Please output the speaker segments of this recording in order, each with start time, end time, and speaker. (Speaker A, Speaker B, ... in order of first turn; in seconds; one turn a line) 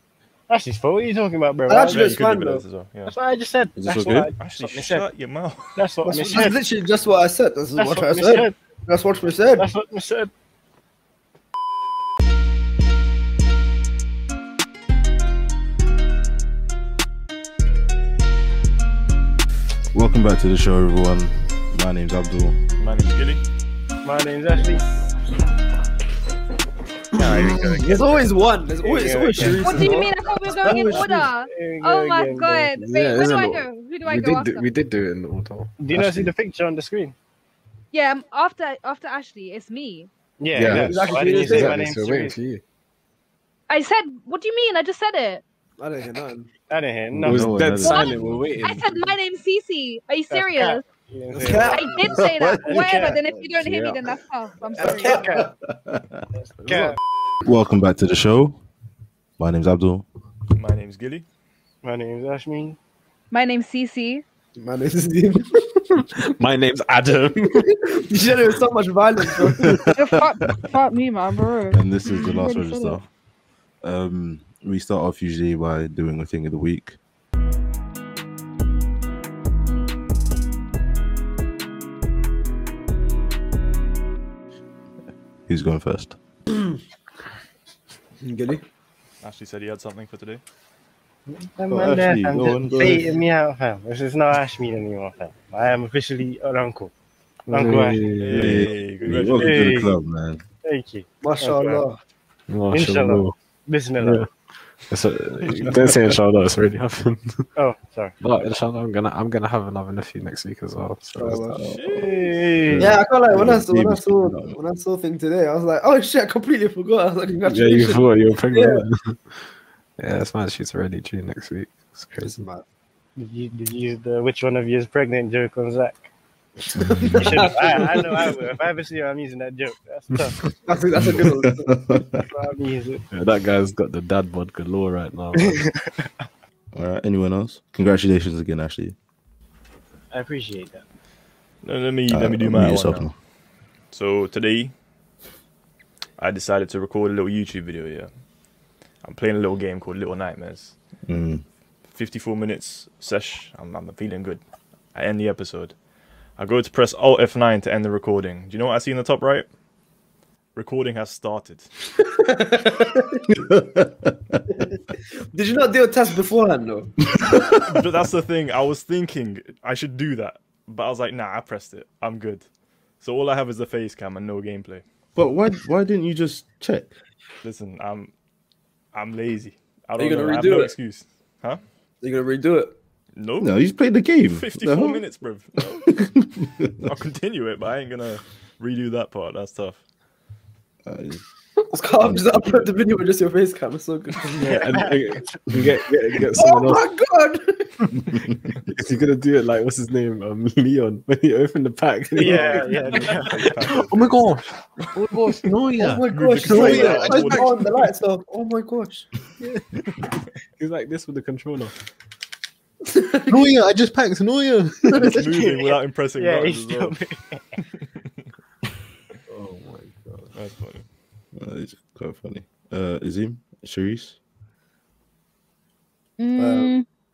Speaker A: 0.5-2.2
Speaker B: 1.7-2.6
Speaker C: 1.9-3.1
Speaker A: 3.0-5.1
Speaker D: 3.8-4.3
Speaker C: 4.4-5.7
Speaker A: 5.8-6.6
Speaker B: 6.0-9.7
Speaker A: 7.8-8.6
Speaker A: 9.6-10.3
Speaker D: 19.9-22.6
Speaker C: 22.8-23.4
Speaker A: 24.0-24.8
Speaker A: 27.1-32.7
Speaker B: 27.2-31.3
Speaker E: 29.6-34.6
Speaker F: 32.7-36.3
Speaker A: 35.8-37.1
Speaker E: 37.9-40.1
Speaker A: 40.4-42.4
Speaker D: 40.5-41.0
Speaker B: 40.6-41.7
Speaker F: 40.6-42.6
Speaker E: 43.7-45.4
Speaker B: 45.8-46.5
Speaker A: 46.7-47.7
Speaker D: 47.1-48.5
Speaker F: 47.2-49.1
Speaker E: 47.8-48.1
Speaker E: 48.6-50.8
Speaker A: 50.3-53.2
Speaker B: 51.4-54.0
Speaker E: 51.5-55.2
Speaker B: 54.8-55.5
Speaker A: 54.8-55.5
Speaker D: 55.8-56.2
Speaker A: 56.4-57.0
Speaker F: 56.6-56.9
Speaker D: 57.4-58.6
Speaker D: 59.4-60.0
Speaker C: 60.5-61.2
Speaker A: 61.8-62.8
Speaker E: 63.3-64.2
Speaker B: 64.6-66.0
Speaker F: 66.1-67.7
Speaker B: 67.6-69.8
Speaker D: 69.6-70.7
Speaker E: 69.8-73.0
Speaker D: 71.7-73.0
Speaker D: 73.8-77.0
Speaker D: 85.5-86.2
Speaker B: 86.5-86.8
Speaker B: 88.2-88.6
Speaker C: 89.2-90.4
Speaker A: 91.5-96.9
Speaker D: 91.7-93.0
Speaker B: 92.4-93.0
Speaker F: 97.5-98.7
Speaker A: 97.5-98.1
Speaker C: 98.2-99.9
Speaker D: 98.3-100.4
Speaker A: 99.2-99.9
Speaker A: 100.6-101.8
Speaker B: 101.2-102.0
Speaker F: 102.5-103.3
Speaker A: 102.7-104.3
Speaker F: 104.0-104.2
Speaker F: 104.9-107.5
Speaker D: 105.4-106.1
Speaker A: 107.5-108.1
Speaker F: 108.2-111.6
Speaker B: 111.2-112.0
Speaker C: 111.5-112.4
Speaker A: 111.9-112.9
Speaker F: 112.7-113.0
Speaker D: 112.7-114.6
Speaker B: 112.8-118.8
Speaker F: 117.5-119.4
Speaker F: 120.0-122.4
Speaker B: 122.2-122.6
Speaker A: 123.2-126.1
Speaker B: 126.9-128.3
Speaker A: 127.1-130.5
Speaker B: 130.7-131.8
Speaker D: 131.1-132.2
Speaker A: 132.2-133.0
Speaker F: 133.1-135.6
Speaker A: 135.4-135.9
Speaker D: 136.7-138.9
Speaker A: 140.1-140.8
Speaker C: 141.6-143.1
Speaker D: 142.1-143.1
Speaker C: 143.9-144.7
Speaker C: 146.2-148.1
Speaker C: 149.0-150.7
Speaker D: 151.1-151.4
Speaker C: 151.9-154.4
Speaker C: 154.9-155.7
Speaker C: 156.4-159.5
Speaker C: 160.5-161.7
Speaker B: 162.0-163.2
Speaker D: 163.3-164.4
Speaker B: 164.5-167.1
Speaker D: 167.3-167.6
Speaker C: 167.6-172.4
Speaker C: 173.0-174.8
Speaker D: 175.2-176.9
Speaker C: 177.4-178.1
Speaker C: 178.9-181.6
Speaker B: 180.0-180.7
Speaker B: 182.0-182.8
Speaker C: 183.2-183.5
Speaker D: 183.4-185.0
Speaker C: 184.3-186.0
Speaker D: 185.9-186.9
Speaker C: 186.8-189.8
Speaker D: 190.8-191.2
Speaker B: 191.6-194.7
Speaker D: 192.0-192.7
Speaker A: 194.4-195.4
Speaker F: 194.4-196.9
Speaker B: 196.3-198.0
Speaker D: 198.0-198.5
Speaker F: 198.7-207.5
Speaker A: 202.1-203.8
Speaker C: 202.2-204.2
Speaker B: 205.8-209.1
Speaker C: 206.1-207.8
Speaker F: 210.6-211.7
Speaker B: 212.8-213.5
Speaker F: 213.3-215.2
Speaker C: 214.9-217.0
Speaker A: 215.4-217.4
Speaker F: 219.3-220.3
Speaker C: 220.3-220.8
Speaker D: 221.3-224.2
Speaker E: 226.2-226.8
Speaker B: 226.4-226.7